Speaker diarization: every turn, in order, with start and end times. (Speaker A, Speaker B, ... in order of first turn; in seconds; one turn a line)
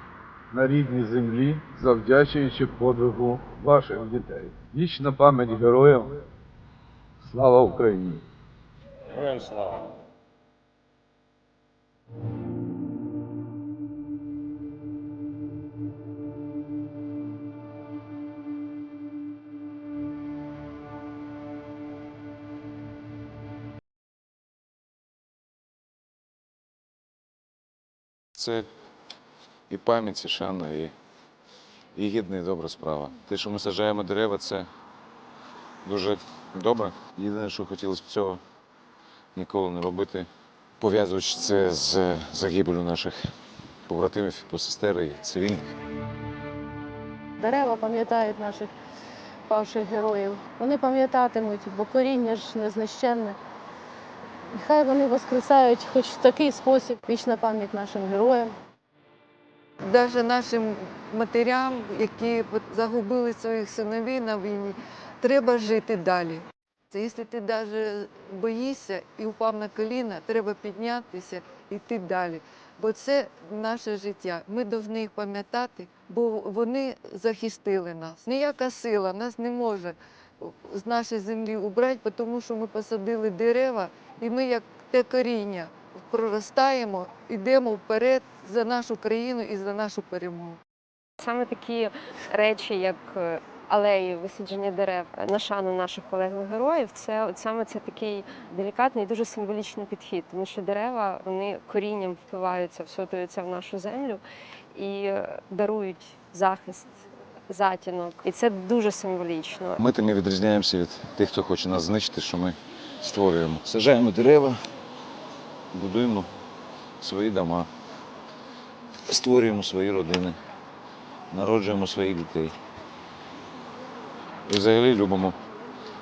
Speaker A: 0.5-6.1
Speaker A: 7.2-8.2
Speaker B: 28.3-28.7
Speaker B: 29.7-30.9
Speaker B: 31.9-34.7
Speaker B: 35.8-38.4
Speaker B: 39.3-40.3
Speaker B: 40.8-43.2
Speaker B: 43.9-45.7
Speaker C: 47.4-48.7
Speaker C: 49.5-53.4
Speaker C: 54.6-58.5
Speaker D: 59.8-90.6
Speaker E: 91.2-104.2
Speaker E: 104.7-109.8
Speaker B: 109.8-114.6
Speaker B: 115.7-116.3
Speaker B: 117.0-117.7
Speaker B: 119.0-120.4
Speaker B: 121.3-122.5
Speaker B: 124.5-125.3